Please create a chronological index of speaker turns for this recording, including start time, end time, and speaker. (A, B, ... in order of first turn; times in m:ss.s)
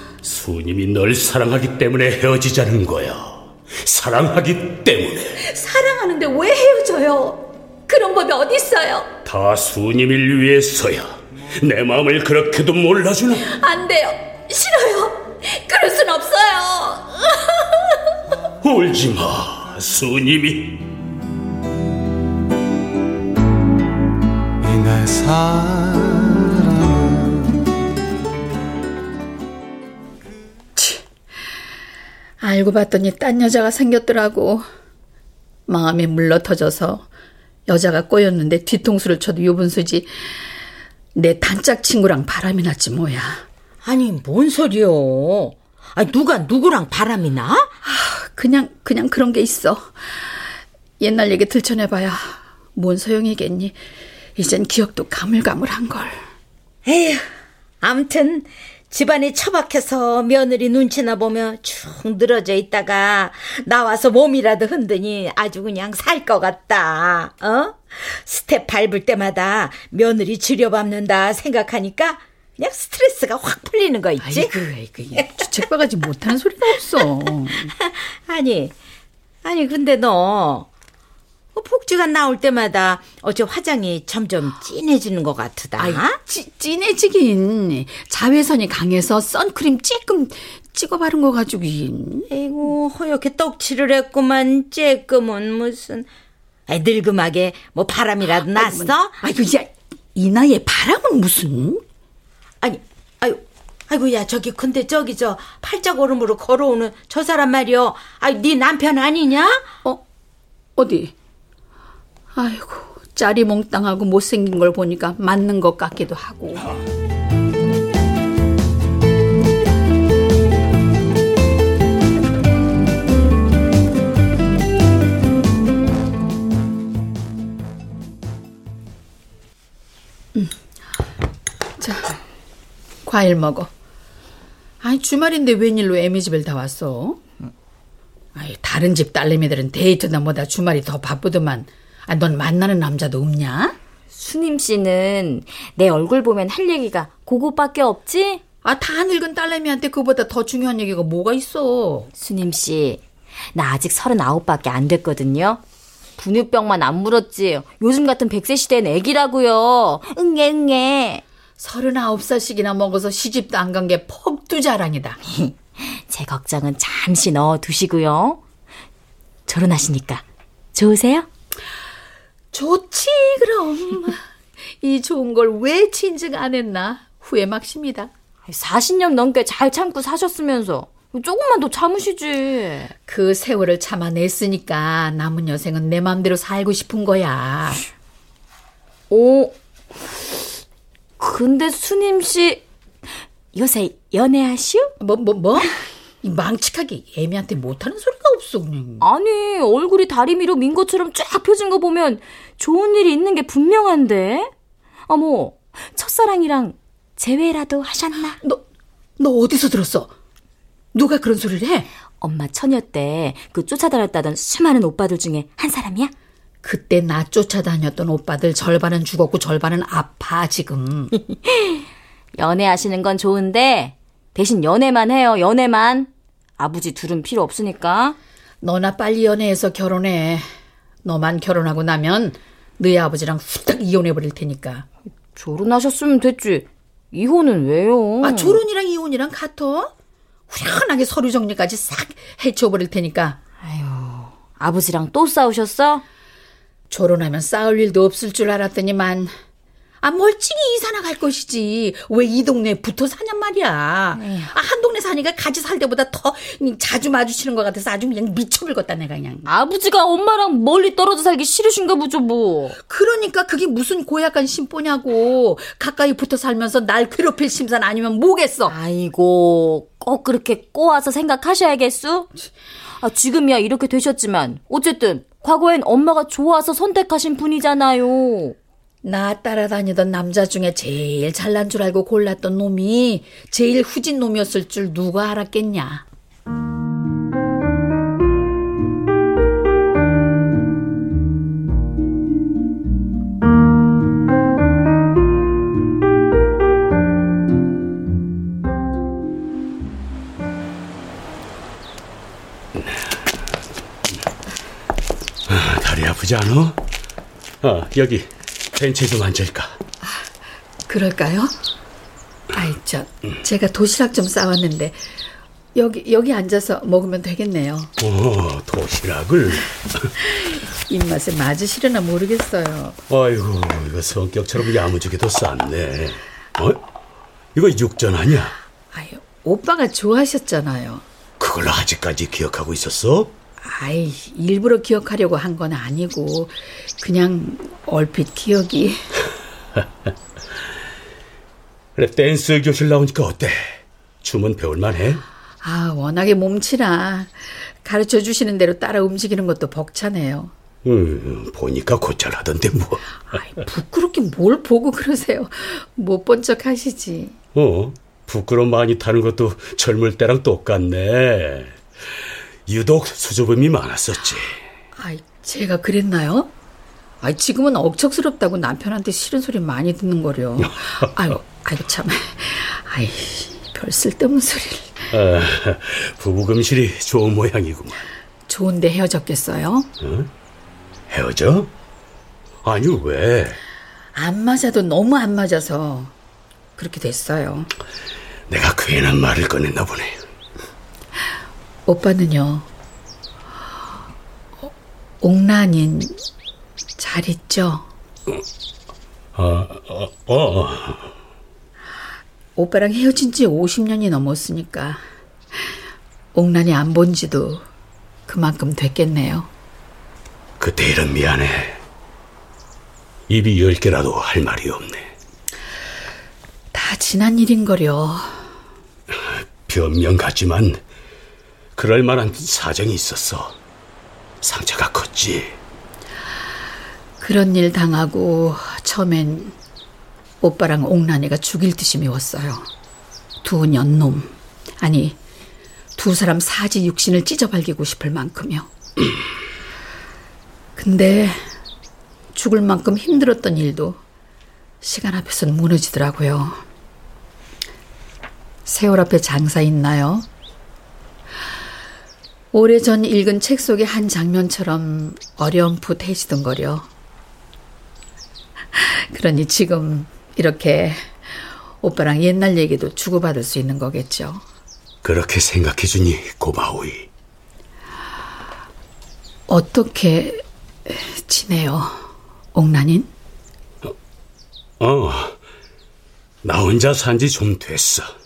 0:00.2-0:05.4 A
0:05.4-0:09.1 B
0:09.2-0:13.5 A
0:13.4-0:18.0 B
0:18.6-0:20.8 A
0:24.6-0:27.3 C
0:30.8-0:31.0 B
0:32.4-0:34.7 B
0:35.7-0:37.1 B
0:37.7-0:40.5 B
0:41.2-0:43.4 B
0:43.8-0:47.7 D
0:47.8-0:50.3 B
0:51.0-0:53.8 B
0:54.4-0:56.2 B
0:56.9-0:57.3 D
0:57.8-1:14.5 D
1:14.2-1:17.7 B
1:17.8-1:18.7 D
1:19.4-1:20.7 D
1:21.5-1:26.2 D
1:25.8-1:32.3 B
1:32.3-1:36.1 D
1:36.7-1:39.1 D
1:38.5-1:41.8 B
1:42.6-1:49.7 D
1:50.8-1:51.1 B
1:52.4-1:56.7 B
2:11.8-2:12.2 B
2:13.0-2:13.7 B
2:14.8-2:17.2 B
2:18.4-2:23.8 B
2:24.2-2:28.4 E
2:28.6-2:32.1 B
2:32.2-2:33.0 E
2:33.5-2:35.6 E
2:36.2-2:41.2 E
2:41.6-2:45.2 B
2:45.3-2:48.4 E
2:49.5-2:51.3 E
2:52.5-2:54.2 B
2:54.7-2:58.1 B
2:58.5-3:02.9 E
3:03.1-3:07.8 B
3:09.1-3:09.5 E
3:11.2-3:12.6 E
3:13.5-3:14.9 E
3:15.0-3:19.0 B
3:19.0-3:24.5 E
3:25.1-3:28.4 E
3:29.2-3:30.1 B
3:30.9-3:31.9 B
3:32.2-3:36.1 E
3:36.6-3:41.2 B
3:42.4-3:48.2 E
3:48.6-3:50.5 B
3:51.0-3:54.9 B
3:55.4-3:58.6 E
3:58.2-3:59.9 B
4:00.5-4:03.4 B
4:03.6-4:06.0 E
4:06.9-4:09.3 B
4:10.0-4:19.5 B
4:14.2-4:14.5 E
4:19.5-4:22.8 E
4:22.9-4:28.7 B
4:28.7-4:32.3 E
4:33.0-4:38.6 E
4:39.0-4:46.0 B
5:02.8-5:03.1 A
5:05.5-5:06.8 A
5:07.6-5:09.8 A
5:10.0-5:10.3 B
5:10.9-5:11.6 B
5:12.5-5:15.0 B
5:15.8-5:17.9 B
5:18.0-5:20.1 A
5:20.9-5:23.0 B
5:23.1-5:26.8 A
5:27.6-5:28.6 A
5:28.9-5:31.0 B
5:31.4-5:33.3 A
5:33.6-5:39.0 B
5:42.0-5:45.2 A
5:45.6-5:50.5 B
5:50.8-5:53.0 A
5:53.3-5:57.4 B
5:57.6-6:01.8 A
6:02.7-6:04.6 A
6:05.0-6:06.5 B
6:07.2-6:15.1 B
6:15.1-6:18.1 A
6:18.5-6:19.9 B
6:20.0-6:20.3 A
6:21.1-6:21.7 A
6:22.6-6:23.6 A
6:24.2-6:26.1 B
6:26.8-6:27.7 B
6:28.5-6:30.2 A
6:31.9-6:32.7 B
6:35.2-6:36.2 B
6:37.0-6:37.9 B
6:39.4-6:41.1 A
6:42.6-6:45.0 B
6:46.3-6:47.6 B
6:48.3-6:49.5 B
6:50.6-6:51.8 A
6:53.3-6:55.1 A
6:56.7-6:58.5 B
6:59.1-7:00.8 A
7:01.8-7:03.6 A
7:04.4-7:05.6 A
7:07.2-7:09.6 B
7:10.4-7:12.7 B
7:13.4-7:15.2 B
7:16.0-7:18.7 B
7:20.8-7:21.5 B
7:22.3-7:24.0 B
7:24.8-7:26.6 B
7:28.6-7:30.3 B
7:32.5-7:36.9 B
7:38.7-7:44.4 B
7:45.0-7:47.1 A
7:49.5-7:53.1 B
7:54.8-7:55.4 A
7:56.4-7:58.1 A